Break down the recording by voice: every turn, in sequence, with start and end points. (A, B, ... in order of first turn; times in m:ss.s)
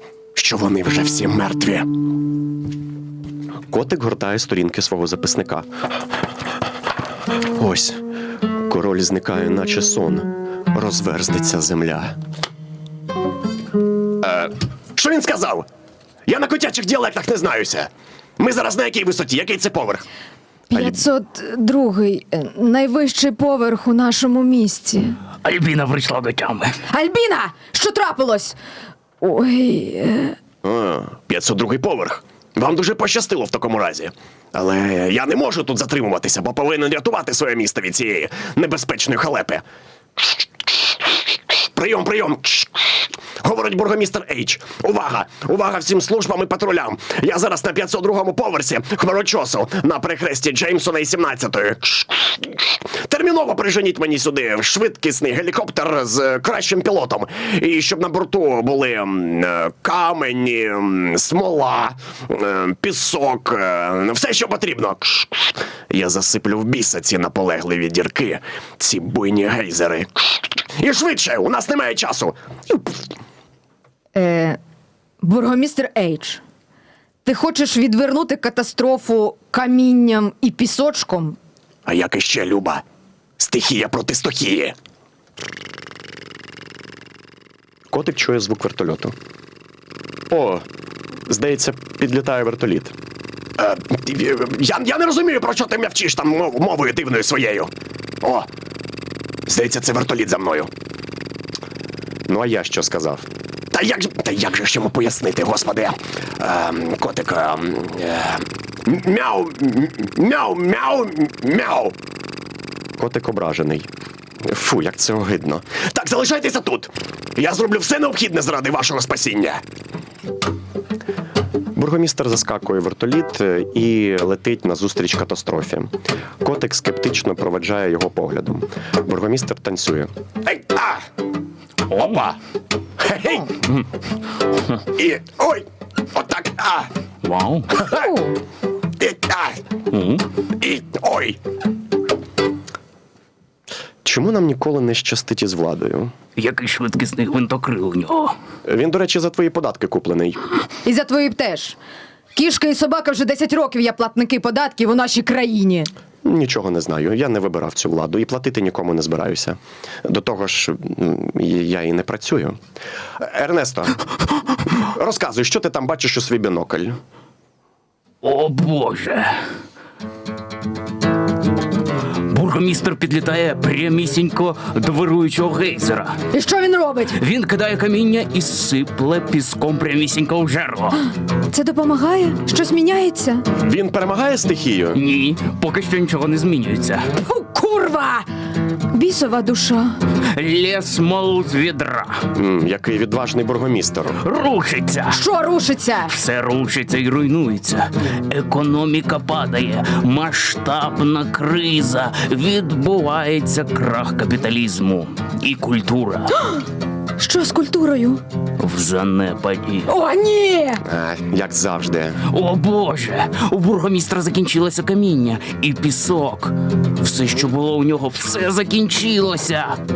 0:00.4-0:01.9 A
0:03.7-0:05.7 A
0:07.5-0:08.0 A
0:08.7-0:12.2 A
0:14.2-0:15.7 A
0:16.3-0:20.0 A
0:20.7-0:25.2 B
0:20.7-0:21.0 A
0:25.4-0:26.7 C
0:26.9-0:28.6 B
0:29.2-0:30.4 B
0:30.6-0:39.6 A
0:41.5-1:13.1 A
1:14.2-1:14.6 B
1:15.2-1:16.4 B
1:17.2-1:21.4 B
1:21.9-1:22.8 A
1:23.4-1:24.8 A
1:27.9-1:29.2 A
1:30.3-1:30.6 A
1:31.3-1:33.0 A
1:33.6-1:37.7 A
1:38.2-1:38.5 A
1:39.5-1:40.7 A
1:42.3-1:52.0 A
1:53.0-1:53.9 A
1:54.4-1:59.6 A
2:01.8-2:05.9 A
2:06.4-2:11.0 A
2:11.9-2:12.4 C
2:13.0-2:13.6 A
2:15.0-2:16.9 A
2:17.2-2:17.8 C
2:17.9-2:18.4 B
2:19.0-2:19.6 A
2:19.9-2:20.2 C
2:20.6-2:21.4 A
2:24.0-2:26.1 A
2:26.4-2:28.3 C
2:28.6-2:30.5 A
2:30.8-2:31.8 B
2:32.4-2:35.9 B
2:36.2-2:42.6 A
2:43.2-2:44.0 A
2:44.8-2:47.0 A
2:48.2-2:49.4 C
2:52.3-2:56.2 C
2:56.3-2:57.2 B
2:57.1-3:01.0 C
3:01.5-3:03.4 B
3:03.6-3:05.0 A
3:04.9-3:07.1 C
3:07.2-3:08.3 B
3:08.9-3:10.0 B
3:10.3-3:12.2 C
3:12.3-3:14.2 A
3:14.2-3:15.2 C
3:15.1-3:16.1 B
3:16.1-3:26.4 C
3:27.2-3:28.2 B
3:28.6-3:29.9 C
3:29.9-3:30.8 B
3:30.8-3:32.2 A
3:32.3-3:39.8 C